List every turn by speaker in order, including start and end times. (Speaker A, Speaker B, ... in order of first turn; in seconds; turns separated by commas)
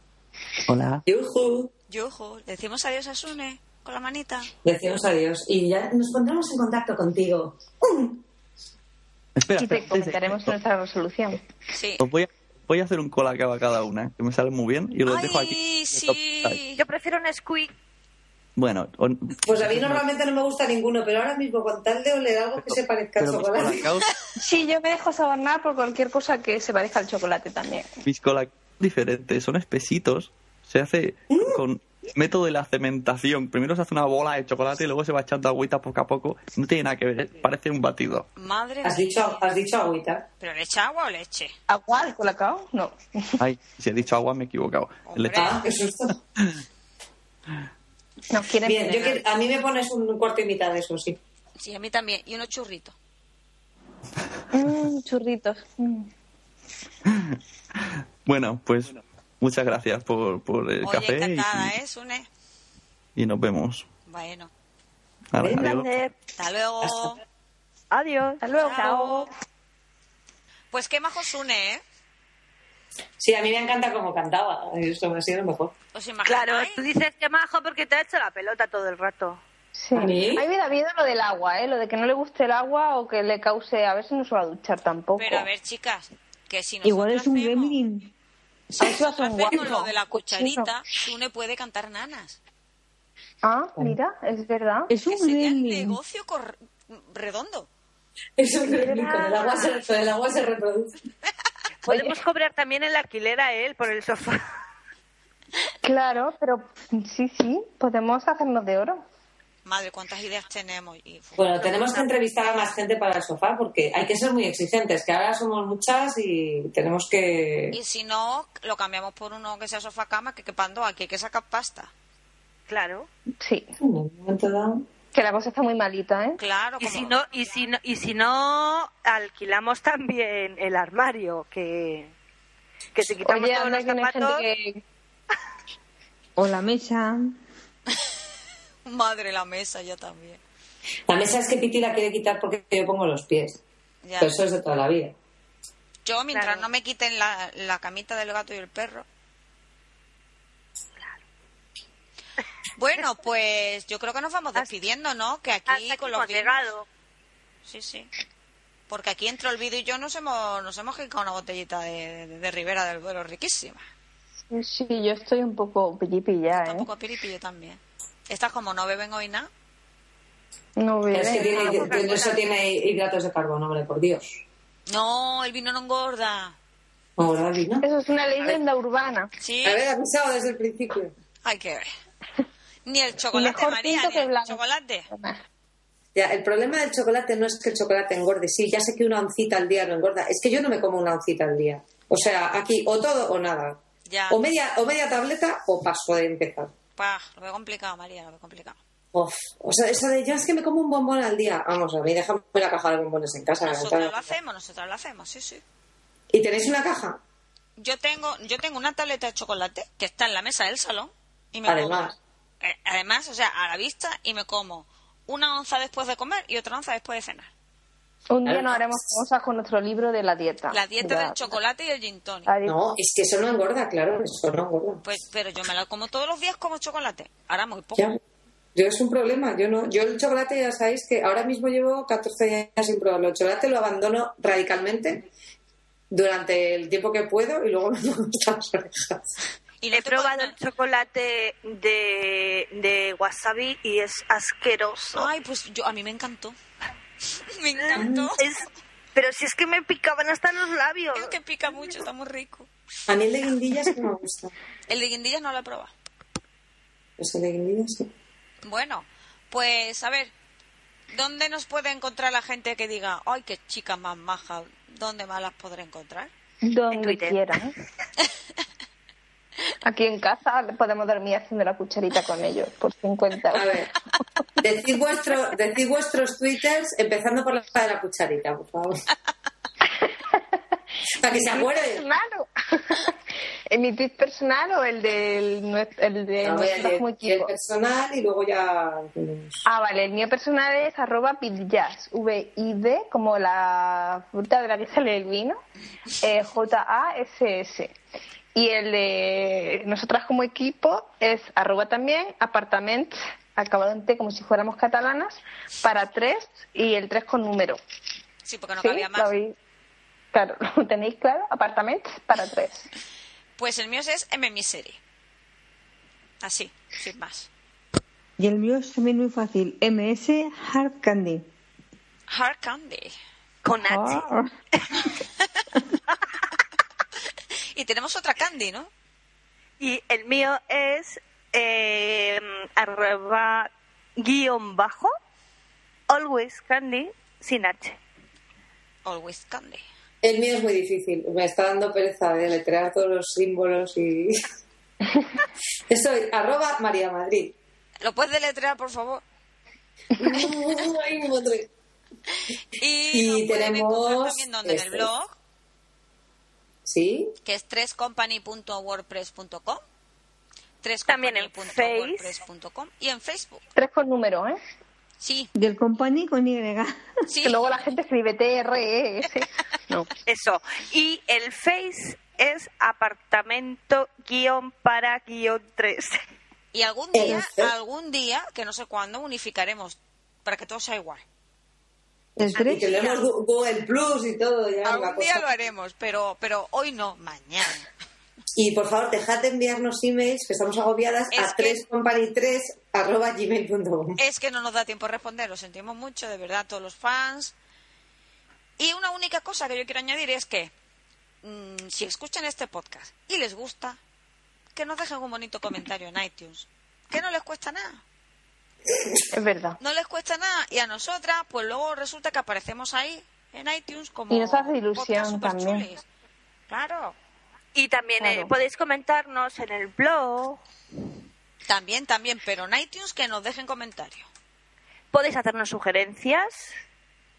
Speaker A: 0.7-1.0, Speaker B: 1.1-1.7, Speaker C: 1.9-4.5, Speaker B: 4.6-8.2, Speaker A: 9.3-10.5, Speaker D: 9.6-11.4, Speaker C: 11.7-12.0, Speaker A: 12.0-16.6, Speaker C: 15.1-16.8, Speaker E: 16.8-17.7, Speaker A: 18.6-20.0, Speaker B: 19.4-23.9, Speaker A: 22.6-24.1, Speaker D: 24.4-27.9, Speaker A: 28.0-38.3, Speaker B: 31.3-31.6, Speaker C: 38.4-39.5, Speaker B: 38.8-40.2, Speaker C: 40.4-41.5, Speaker D: 41.7-43.4, Speaker A: 43.4-45.5, Speaker C: 45.1-45.6, Speaker B: 45.3-46.2, Speaker A: 46.4-46.6, Speaker D: 48.3-49.2, Speaker B: 48.6-51.2, Speaker C: 51.6-52.9, Speaker D: 54.5-56.1, Speaker A: 57.0-61.7, Speaker C: 60.8-62.3, Speaker A: 63.1-63.9, Speaker C: 64.1-64.5, Speaker A: 65.3-65.9, Speaker B: 65.4-65.7, Speaker E: 65.6-66.1, Speaker C: 66.4-67.2, Speaker B: 66.8-67.2, Speaker E: 67.9-69.3, Speaker C: 68.6-69.3, Speaker C: 70.7-71.8, Speaker B: 73.2-75.7, Speaker C: 75.9-76.8, Speaker E: 76.2-79.4, Speaker D: 79.7-85.5, Speaker B: 80.0-80.5, Speaker C: 85.2-87.8, Speaker F: 86.8-88.1, Speaker C: 88.7-92.4, Speaker D: 88.8-90.7, Speaker D: 93.4-94.9, Speaker F: 94.9-96.0, Speaker C: 95.0-97.7, Speaker B: 98.4-101.0, Speaker E: 98.7-99.7, Speaker E: 101.8-104.4, Speaker D: 101.8-102.2, Speaker D: 105.8-109.0, Speaker C: 109.6-112.1, Speaker B: 111.4-117.8, Speaker C: 117.7-121.9, Speaker E: 122.7-123.1, Speaker D: 123.4-123.7, Speaker B: 123.8-124.8, Speaker D: 125.1-126.4, Speaker C: 126.4-127.2, Speaker E: 126.8-132.1, Speaker E: 132.9-134.4, Speaker D: 133.2-134.8, Speaker F: 136.4-137.4, Speaker C: 138.8-140.4, Speaker B: 141.1-143.6, Speaker C: 144.0-144.4, Speaker B: 144.2-145.1, Speaker C: 146.1-149.1, Speaker E: 146.3-146.7, Speaker C: 152.8-156.7, Speaker E: 155.7-156.8, Speaker C: 157.6-158.1, Speaker C: 158.9-163.8, Speaker D: 164.5-166.9, Speaker C: 166.5-169.5, Speaker D: 170.8-172.3, Speaker B: 171.1-174.4, Speaker C: 174.9-176.5, Speaker B: 177.2-177.8, Speaker D: 177.8-179.3, Speaker C: 179.4-179.8, Speaker B: 179.6-181.1, Speaker C: 181.4-181.9, Speaker C: 182.8-185.1, Speaker D: 183.3-184.6, Speaker D: 185.1-185.4, Speaker B: 186.1-193.8, Speaker C: 194.1-194.4, Speaker B: 194.3-196.7, Speaker C: 197.0-198.8, Speaker B: 199.1-204.3, Speaker C: 203.6-205.6, Speaker B: 206.3-207.2, Speaker C: 207.8-217.5, Speaker B: 211.7-212.1, Speaker D: 218.3-221.5, Speaker B: 218.5-219.2, Speaker C: 220.7-222.5, Speaker D: 222.4-222.8, Speaker B: 222.6-225.0, Speaker C: 225.0-228.1, Speaker B: 228.7-235.2, Speaker B: 236.1-239.3, Speaker C: 239.8-240.5, Speaker E: 239.9-245.3, Speaker C: 245.1-246.6, Speaker C: 247.5-248.4, Speaker E: 247.9-251.3, Speaker B: 247.9-248.4, Speaker C: 251.1-252.7, Speaker B: 253.1-254.5, Speaker C: 254.9-255.9, Speaker B: 257.2-258.1, Speaker C: 258.6-260.3, Speaker C: 261.1-266.3, Speaker D: 266.6-267.7, Speaker E: 266.9-267.4, Speaker D: 269.8-273.7, Speaker B: 273.5-273.9, Speaker B: 274.6-279.0, Speaker D: 280.0-280.4, Speaker B: 281.2-282.0, Speaker D: 281.3-283.1, Speaker D: 283.7-287.5, Speaker B: 286.4-289.6, Speaker D: 289.6-295.6, Speaker D: 296.2-297.9, Speaker D: 298.5-307.8, Speaker C: 308.4-309.3, Speaker D: 308.8-309.5, Speaker D: 310.3-312.9, Speaker C: 313.6-315.0, Speaker C: 316.4-317.5, Speaker F: 318.4-321.4, Speaker C: 322.3-323.1, Speaker E: 323.6-324.3, Speaker F: 323.9-324.4, Speaker C: 327.7-328.9, Speaker E: 329.8-335.1, Speaker E: 336.1-338.0, Speaker C: 339.0-339.8, Speaker B: 340.2-344.3, Speaker B: 345.9-347.5, Speaker C: 348.0-349.2, Speaker B: 350.1-351.7, Speaker C: 352.8-355.3, Speaker B: 353.1-355.1, Speaker B: 356.9-357.3, Speaker C: 357.4-359.8, Speaker C: 360.8-363.6, Speaker E: 361.1-362.4, Speaker D: 363.8-364.6, Speaker C: 365.2-365.5, Speaker F: 365.5-367.0, Speaker C: 367.3-367.6, Speaker D: 367.4-370.1, Speaker E: 370.2-376.2, Speaker C: 376.7-381.2, Speaker B: 377.1-377.7, Speaker F: 382.4-382.8, Speaker C: 382.6-383.2, Speaker B: 382.6-385.4, Speaker C: 384.8-387.9, Speaker B: 388.6-394.2, Speaker C: 391.3-391.8, Speaker C: 394.2-397.5, Speaker C: 398.8-400.7, Speaker C: 401.4-404.0, Speaker C: 404.7-408.0, Speaker B: 408.9-409.2, Speaker D: 409.3-409.8, Speaker C: 409.8-416.0, Speaker D: 414.3-415.9, Speaker C: 416.7-417.1, Speaker E: 417.7-420.6, Speaker D: 418.2-418.5, Speaker C: 421.7-424.3, Speaker E: 425.1-426.7